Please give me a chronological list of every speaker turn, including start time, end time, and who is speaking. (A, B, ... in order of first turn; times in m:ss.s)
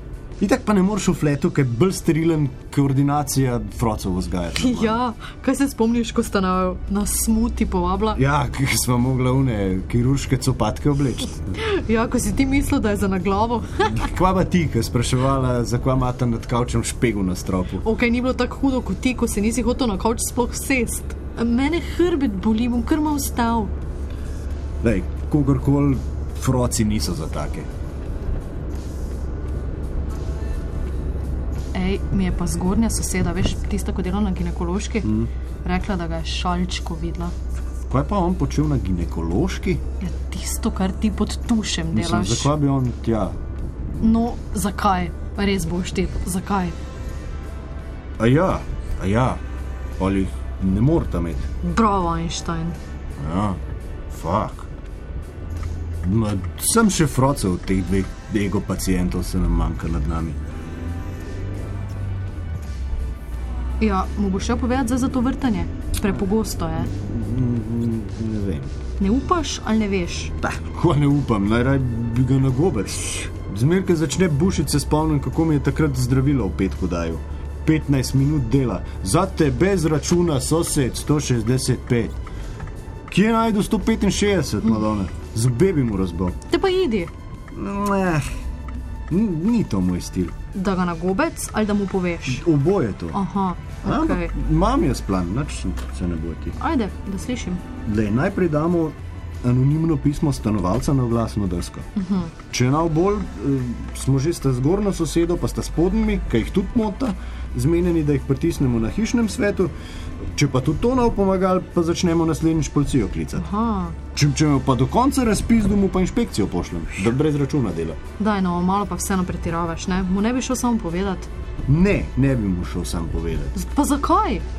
0:00.4-0:05.0 A
0:04.5-0:08.2 B
0:08.1-0:11.4 A
0:11.5-0:14.0 B
0:13.8-0:17.8 A
0:17.8-0:23.7 B
0:24.8-0:27.7 A
0:31.7-0:37.3 B
0:35.0-0:35.3 A
0:37.9-0:39.8 A
0:40.0-0:42.5 B
0:41.9-0:43.4 A
0:44.0-0:46.8 B
0:48.2-0:49.4 A
0:50.0-0:51.5 A
0:51.6-0:52.8 B
0:53.2-0:53.6 A
0:54.1-0:54.7 A
0:56.0-1:00.4 A
1:03.8-1:06.9 B
1:06.9-1:08.7 A
1:09.0-1:10.3 B
1:10.4-1:22.2 A
1:23.1-1:26.4 A
1:26.5-1:27.1 B
1:27.5-1:28.2 A
1:29.1-1:30.3 A
1:30.5-1:32.4 B
1:32.3-1:33.2 A
1:33.1-1:34.3 B
1:33.8-1:36.6 A
1:36.6-1:37.6 B
1:37.8-1:41.8 A
1:42.0-1:42.3 B
1:42.5-1:49.7 A
1:50.3-1:53.5 A
1:53.4-1:54.0 B
1:54.1-1:58.0 A
1:58.2-2:01.3 B
2:01.7-2:03.5 A
2:03.5-2:04.4 B